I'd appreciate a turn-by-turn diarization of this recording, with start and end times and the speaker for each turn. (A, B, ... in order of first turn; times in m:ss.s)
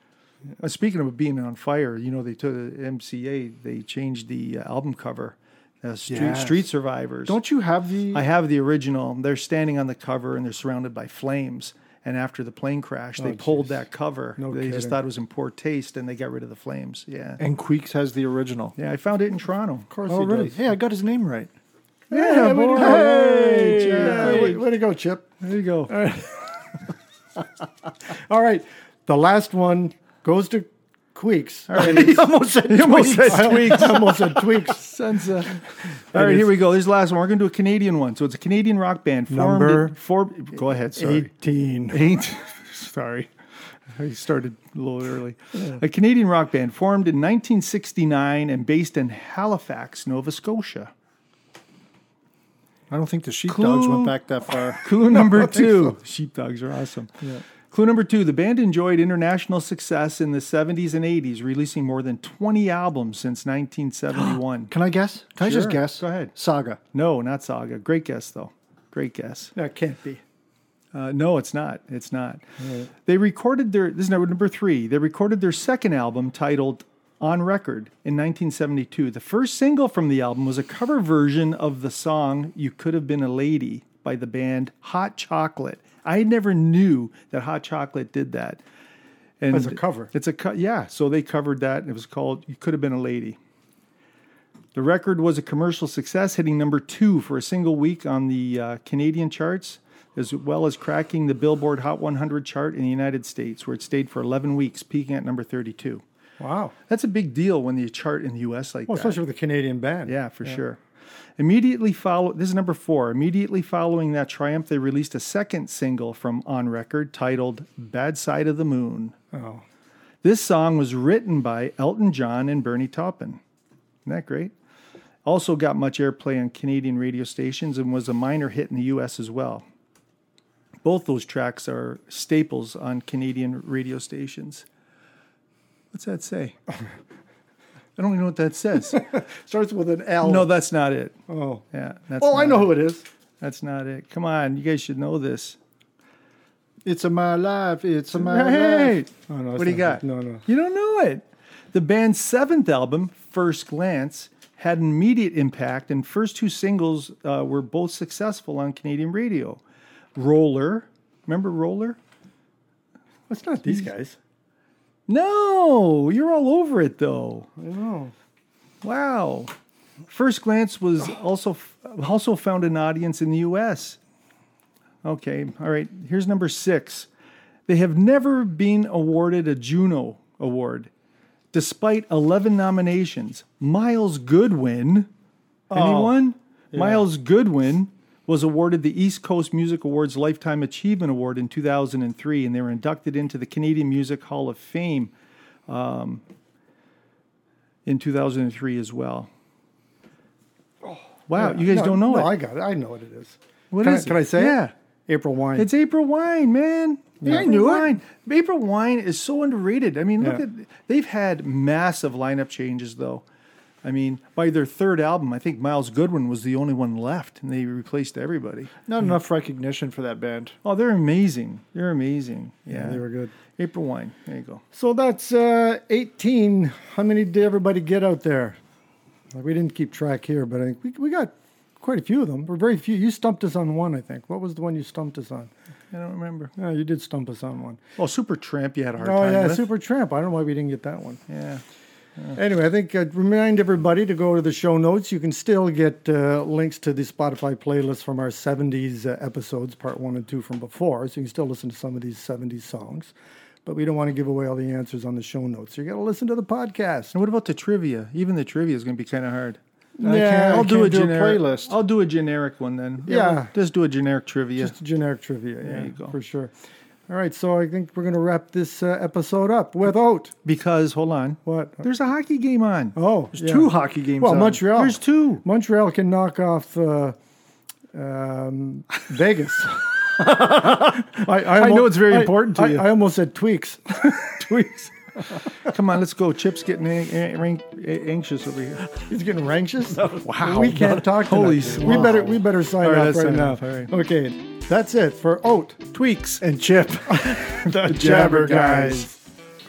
0:00.6-0:07.4 A
0:06.1-0:06.7 B
0:07.3-0:08.3 B
0:08.1-0:17.4 A
0:13.2-0:13.8 C
0:14.4-0:15.0 C
0:17.4-0:18.8 B
0:18.8-0:19.9 A
0:19.9-0:20.6 C
0:20.1-0:21.5 B
0:22.1-0:24.6 A
0:22.1-0:25.3 C
0:22.1-0:24.6 B
0:25.4-0:25.9 A
0:25.9-0:26.5 C
0:28.2-0:32.2 C
0:31.7-0:41.3 A
0:31.8-0:34.2 B
0:33.3-0:34.9 C
0:36.1-0:36.5 C
0:39.3-0:39.9 C
0:41.0-0:42.1 C
0:41.9-0:43.3 A
0:43.9-0:50.9 A
0:52.9-0:55.1 B
0:53.5-1:04.7 A
0:55.5-0:55.8 C
1:04.3-1:06.8 B
1:05.4-1:06.3 A
1:06.9-1:09.5 A
1:09.6-1:10.2 C
1:10.9-1:12.4 A
1:12.6-1:12.9 C
1:13.1-1:28.6 A
1:29.4-1:33.4 A
1:29.5-1:30.1 C
1:34.8-1:46.0 A
1:46.4-1:46.7 C
1:46.9-1:49.2 A
1:48.9-1:50.6 C
1:50.1-1:50.8 A
1:51.4-1:59.2 A
1:59.3-1:59.6 C
2:00.2-2:03.4 A
2:04.1-2:04.5 A
2:05.2-2:09.6 A
2:10.8-2:14.6 A
2:15.9-2:16.6 A
2:18.0-2:19.2 A
2:19.0-2:20.5 C
2:20.2-2:21.2 A
2:21.3-2:21.6 C
2:21.7-2:22.7 A
2:22.2-2:23.0 C
2:23.4-2:25.6 A
2:26.8-2:29.0 B
2:28.2-2:39.6 A
2:28.4-2:30.4 C
2:40.2-2:42.0 A
2:43.3-2:44.2 C
2:45.1-2:47.5 A
2:47.6-2:48.1 C
2:48.8-2:49.5 A
2:50.1-2:54.0 A
2:55.0-2:57.1 A
2:57.7-3:00.9 A
3:01.5-3:05.1 A
3:05.7-3:06.2 C
3:05.7-3:15.1 A
3:06.7-3:07.0 C
3:15.7-3:16.2 A
3:17.9-3:19.3 A
3:20.8-3:25.7 C
3:21.3-3:22.3 A
3:23.7-3:24.7 A
3:25.6-3:33.2 A
3:27.2-3:27.5 C
3:27.3-3:28.0 B
3:33.8-3:38.7 A
3:38.9-3:40.6 B
3:40.6-3:44.6 A
3:42.7-3:43.3 C
3:44.7-3:48.6 C
3:49.3-3:55.5 C
3:55.9-3:56.5 A
3:56.6-3:57.8 C
3:58.0-3:59.7 A
3:59.0-4:01.2 C
4:01.3-4:01.6 A
4:02.4-4:13.1 C
4:13.6-4:17.1 C
4:17.1-4:19.6 A
4:20.0-4:20.8 C
4:20.0-4:21.8 B
4:20.5-4:24.8 A
4:23.1-4:23.5 C
4:24.6-4:26.5 C
4:25.6-4:26.1 A
4:27.1-4:30.3 C
4:30.4-4:33.0 A
4:31.4-4:31.8 C
4:33.0-4:37.2 C
4:33.4-4:34.6 B
4:34.7-4:35.4 A
4:37.9-4:40.0 C
4:40.6-4:44.2 C
4:41.2-4:42.9 A
4:44.1-4:44.9 A
4:45.6-4:48.9 A
4:49.1-4:55.8 C
4:50.0-4:52.3 B
4:50.1-4:53.9 A
4:55.9-4:56.4 A
4:56.4-4:59.1 B
4:57.1-4:59.2 C
4:57.8-4:58.4 A